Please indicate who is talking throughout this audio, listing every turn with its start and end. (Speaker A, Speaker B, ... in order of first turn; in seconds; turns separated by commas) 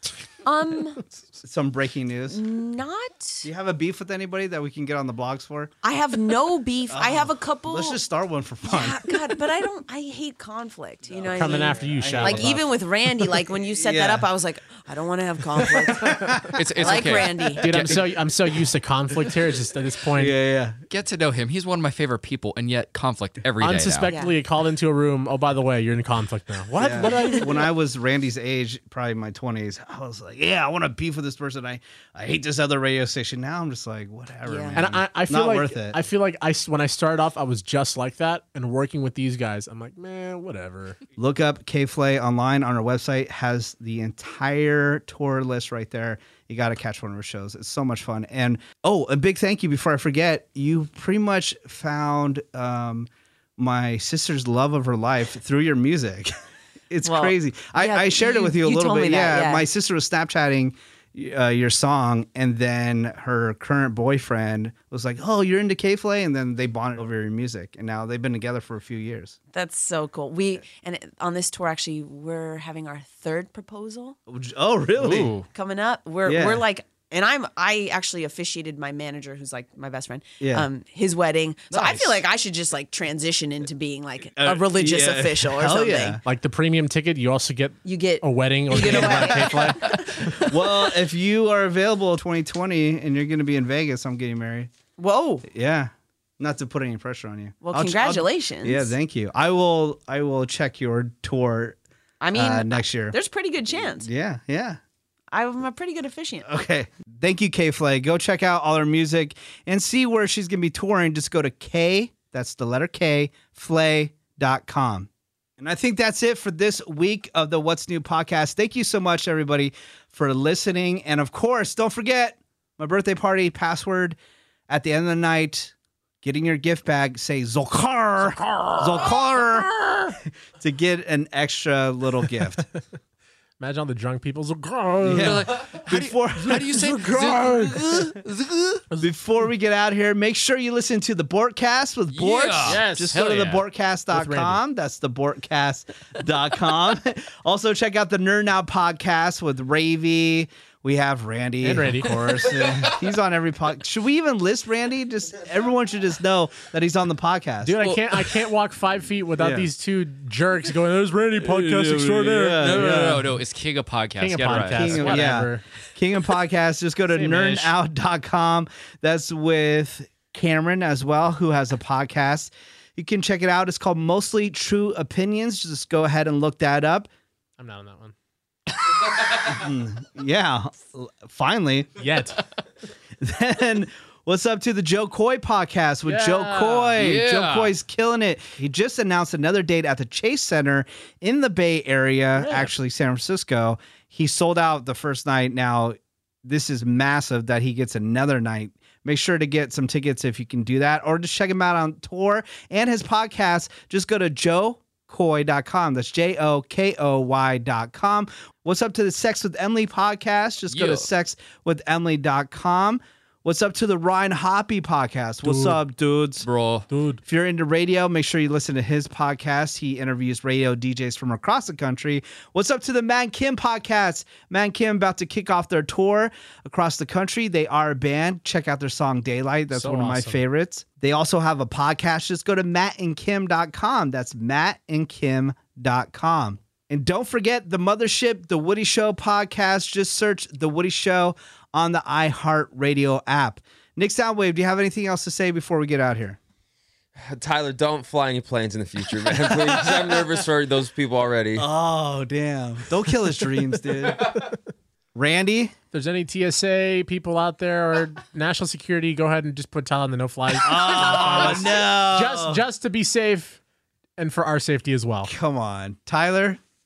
Speaker A: 0.4-1.0, Speaker B: 1.4-2.4, Speaker A: 2.3-3.5, Speaker B: 3.4-5.7, Speaker A: 5.8-8.0, Speaker B: 6.9-9.1, Speaker A: 8.7-16.2, Speaker C: 11.3-12.6, Speaker B: 11.8-12.6, Speaker B: 13.8-14.3, Speaker B: 15.6-16.6, Speaker D: 16.5-18.0, Speaker A: 16.8-17.8, Speaker C: 17.6-20.3, Speaker B: 20.2-20.8, Speaker D: 20.9-24.1, Speaker C: 23.6-27.6, Speaker A: 24.1-24.4, Speaker B: 26.8-36.0, Speaker A: 27.0-27.6, Speaker A: 34.4-34.9, Speaker C: 34.8-41.0, Speaker B: 41.2-56.3, Speaker B: 56.9-69.4, Speaker A: 57.0-59.7, Speaker A: 69.5-74.2, Speaker B: 74.3-75.4, Speaker D: 75.0-75.4, Speaker A: 75.5-86.2, Speaker B: 76.2-76.6, Speaker B: 80.4-80.7, Speaker D: 81.7-82.2, Speaker B: 84.4-86.2, Speaker C: 86.2-90.4, Speaker A: 87.8-91.0, Speaker B: 88.9-89.1, Speaker B: 90.5-94.7, Speaker A: 95.0-95.4, Speaker B: 95.4-101.8, Speaker A: 97.6-98.9, Speaker A: 102.2-104.1, Speaker B: 102.3-103.2, Speaker B: 104.0-104.8, Speaker A: 105.3-106.5, Speaker B: 106.4-124.2, Speaker B: 124.7-132.6, Speaker C: 128.4-129.2, Speaker C: 133.6-135.5, Speaker B: 135.0-138.2, Speaker D: 135.2-138.8, Speaker C: 136.7-138.0, Speaker B: 139.0-157.8, Speaker D: 142.1-143.6, Speaker C: 142.7-143.2, Speaker C: 144.1-144.6, Speaker C: 151.6-152.1, Speaker C: 157.6-162.9, Speaker B: 159.4-159.7, Speaker B: 161.4-163.3, Speaker D: 162.6-165.3, Speaker C: 164.2-165.6, Speaker B: 164.7-177.1, Speaker C: 167.1-167.7, Speaker C: 177.6-178.1, Speaker B: 179.4-181.9, Speaker C: 182.0-182.4, Speaker B: 183.2-216.4, Speaker C: 186.0-187.0, Speaker D: 187.0-187.7, Speaker C: 192.4-192.7, Speaker D: 210.7-211.1, Speaker C: 215.4-215.8, Speaker D: 216.4-216.8, Speaker C: 216.9-217.2, Speaker B: 217.2-246.4, Speaker C: 229.7-230.4, Speaker E: 247.2-251.7, Speaker B: 251.6-254.5, Speaker B: 255.1-255.7, Speaker C: 255.9-263.6, Speaker B: 260.6-262.6, Speaker C: 264.2-265.3, Speaker B: 265.2-266.6